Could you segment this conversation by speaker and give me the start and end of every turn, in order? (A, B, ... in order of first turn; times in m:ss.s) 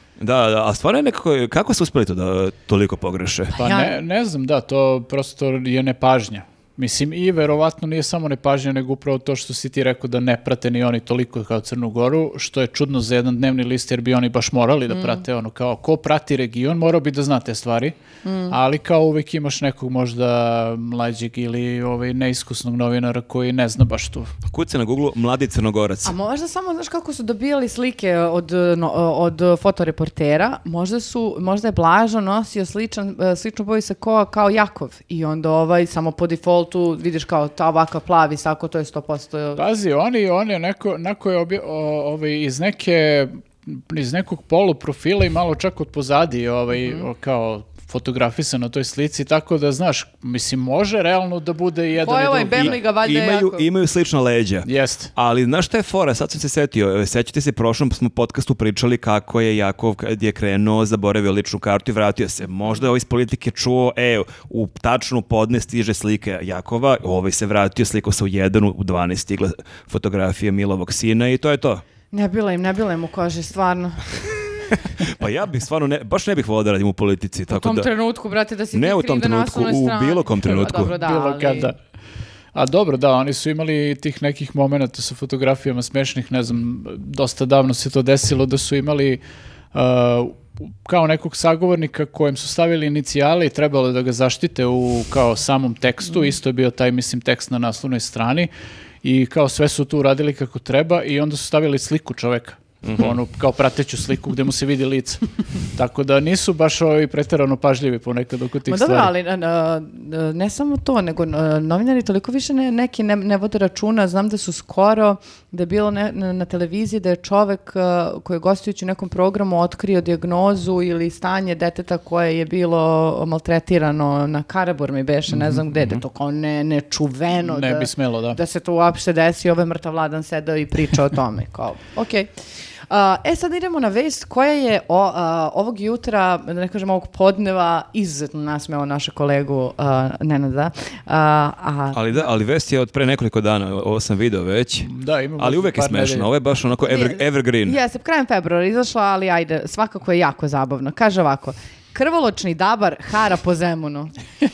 0:00.2-0:03.5 A
0:03.5-0:04.0 B
0:03.5-0:17.9 C
0:14.9-0:15.2 B
0:18.2-0:18.6 B
0:18.5-0:24.3 C
0:24.5-0:26.1 A
0:26.0-0:39.6 B
0:39.6-0:52.8 C
0:46.7-0:47.0 B
0:52.0-0:53.6 B
0:52.5-1:11.8 A
0:54.6-0:55.1 C
1:12.1-1:14.3 B
1:14.9-1:17.9 A
1:17.5-1:21.7 B
1:18.7-1:20.9 A
1:20.7-1:21.8 C
1:22.5-1:29.2 C
1:29.7-1:38.5 C
1:39.0-1:45.2 C
1:42.9-1:43.1 A
1:45.7-1:49.1 C
1:48.7-2:12.3 B
2:05.3-2:05.6 C
2:07.4-2:08.4 C
2:12.9-2:22.3 B
2:21.9-2:27.8 A
2:24.9-2:26.3 C
2:26.8-2:34.1 B